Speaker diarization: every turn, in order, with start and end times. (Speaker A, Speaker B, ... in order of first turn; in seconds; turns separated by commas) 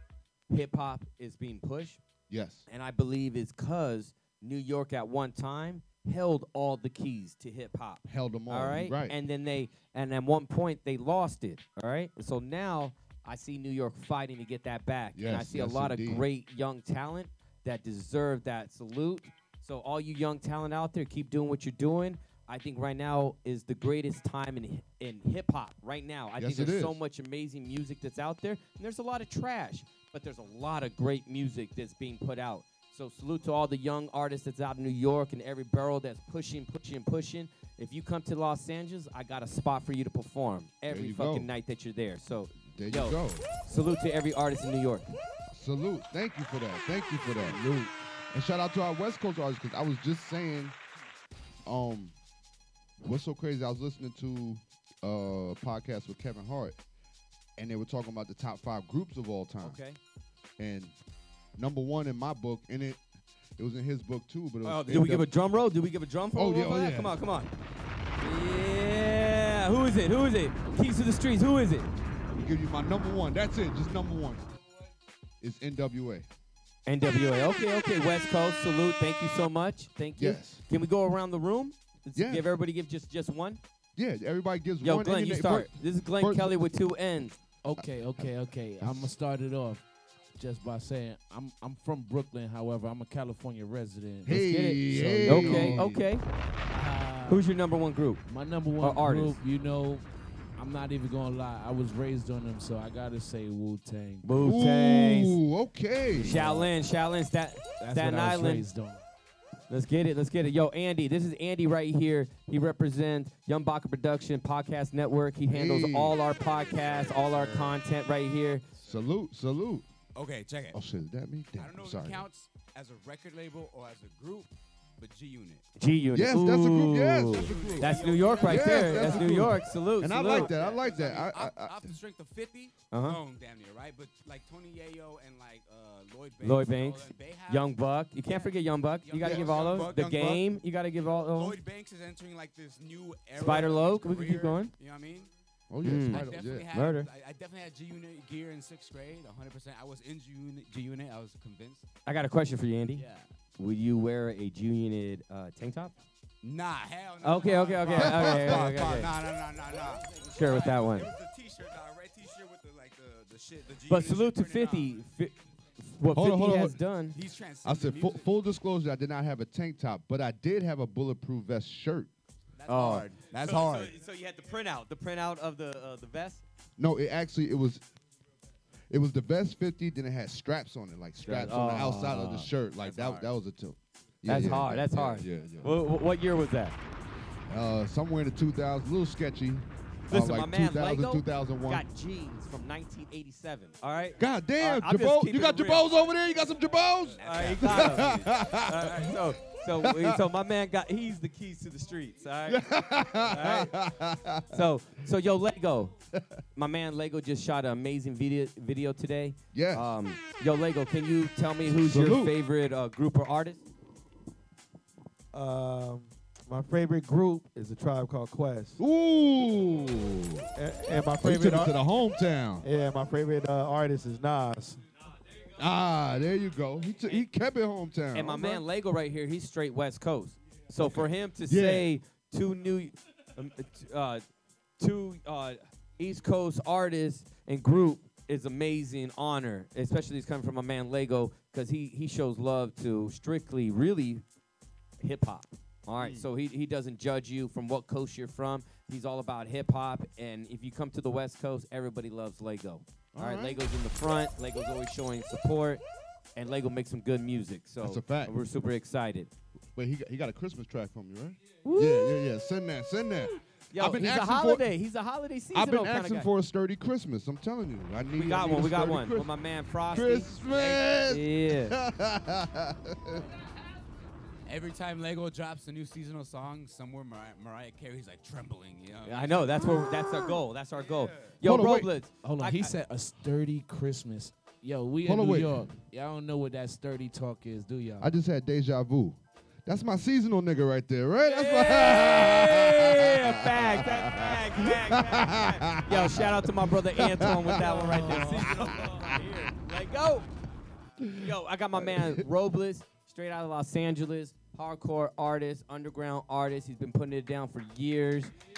Speaker A: 0.5-2.0, Speaker B: 2.3-2.6, Speaker A: 2.7-45.1, Speaker B: 8.0-9.2, Speaker B: 15.1-16.2, Speaker B: 26.4-26.9, Speaker B: 40.9-41.5, Speaker B: 42.7-43.5, Speaker B: 45.5-50.7, Speaker B: 51.6-52.1, Speaker B: 53.0-56.8, Speaker B: 57.6-59.8, Speaker A: 59.6-60.0, Speaker B: 60.6-60.9, Speaker B: 61.6-63.0, Speaker B: 63.6-65.3, Speaker A: 64.6-67.5, Speaker B: 66.3-67.2, Speaker A: 68.2-71.9, Speaker B: 72.3-74.4, Speaker B: 75.4-76.3, Speaker A: 76.8-83.6, Speaker B: 80.2-80.6, Speaker B: 82.1-82.5, Speaker B: 84.0-86.6, Speaker A: 84.8-87.3, Speaker C: 87.6-89.8, Speaker B: 87.8-89.1, Speaker C: 90.3-95.8, Speaker B: 94.2-96.0, Speaker A: 94.3-96.2, Speaker C: 96.7-97.5, Speaker A: 97.3-98.2, Speaker C: 98.2-100.0, Speaker A: 98.8-99.4, Speaker C: 100.6-104.3, Speaker A: 104.2-105.4, Speaker B: 104.3-106.6, Speaker A: 106.2-108.7, Speaker C: 107.8-109.0, Speaker A: 109.7-118.6, Speaker B: 115.5-116.2, Speaker D: 116.2-117.8, Speaker D: 118.7-119.0, Speaker B: 118.8-119.9, Speaker D: 120.1-120.8, Speaker B: 120.7-122.2, Speaker D: 121.5-125.6, Speaker A: 125.8-130.5, Speaker B: 126.1-131.9, Speaker D: 127.3-140.5, Speaker A: 132.9-133.2, Speaker A: 136.4-141.6, Speaker D: 141.3-145.3, Speaker A: 143.4-144.7, Speaker B: 145.7-146.7, Speaker A: 145.8-147.1, Speaker D: 145.9-151.9, Speaker A: 152.1-153.0, Speaker D: 152.9-153.3, Speaker A: 153.6-155.9, Speaker D: 156.4-164.9, Speaker A: 157.2-159.1, Speaker B: 157.9-159.1, Speaker A: 160.3-161.1, Speaker A: 163.9-167.2, Speaker B: 166.1-166.8, Speaker D: 167.1-168.2, Speaker B: 167.6-172.1, Speaker D: 172.6-174.0, Speaker A: 172.7-176.4, Speaker B: 176.8-177.8, Speaker B: 178.9-185.7, Speaker A: 181.2-182.5, Speaker D: 182.8-183.3, Speaker A: 184.2-186.8, Speaker B: 187.5-191.8, Speaker A: 190.1-195.9, Speaker B: 194.2-199.3, Speaker D: 197.0-198.4, Speaker A: 197.2-202.6, Speaker B: 199.8-200.2, Speaker B: 202.4-204.7, Speaker A: 203.2-203.7, Speaker A: 204.5-205.9, Speaker A: 206.5-213.6, Speaker B: 209.5-209.9, Speaker B: 211.7-212.3, Speaker E: 215.3-218.8, Speaker B: 218.8-220.5, Speaker E: 220.6-221.7, Speaker B: 221.2-222.7, Speaker E: 222.6-224.8, Speaker B: 225.6-228.6, Speaker A: 228.1-234.2, Speaker B: 230.8-231.9, Speaker A: 234.8-244.2, Speaker A: 245.0-255.8, Speaker B: 246.0-246.2, Speaker B: 253.1-253.6, Speaker A: 256.4-259.3, Speaker B: 257.8-258.4, Speaker B: 259.7-264.7, Speaker A: 261.6-262.2, Speaker A: 263.7-266.3, Speaker B: 265.5-269.3, Speaker A: 268.1-271.8, Speaker B: 269.9-273.2, Speaker D: 274.4-279.9, Speaker A: 279.1-282.7, Speaker D: 280.7-281.4, Speaker B: 281.4-281.9, Speaker C: 282.2-288.1, Speaker B: 285.0-285.7, Speaker B: 288.0-299.3, Speaker A: 291.2-300.3, Speaker D: 297.6-299.5, Speaker B: 301.0-301.3, Speaker A: 301.2-308.3, Speaker B: 301.8-302.2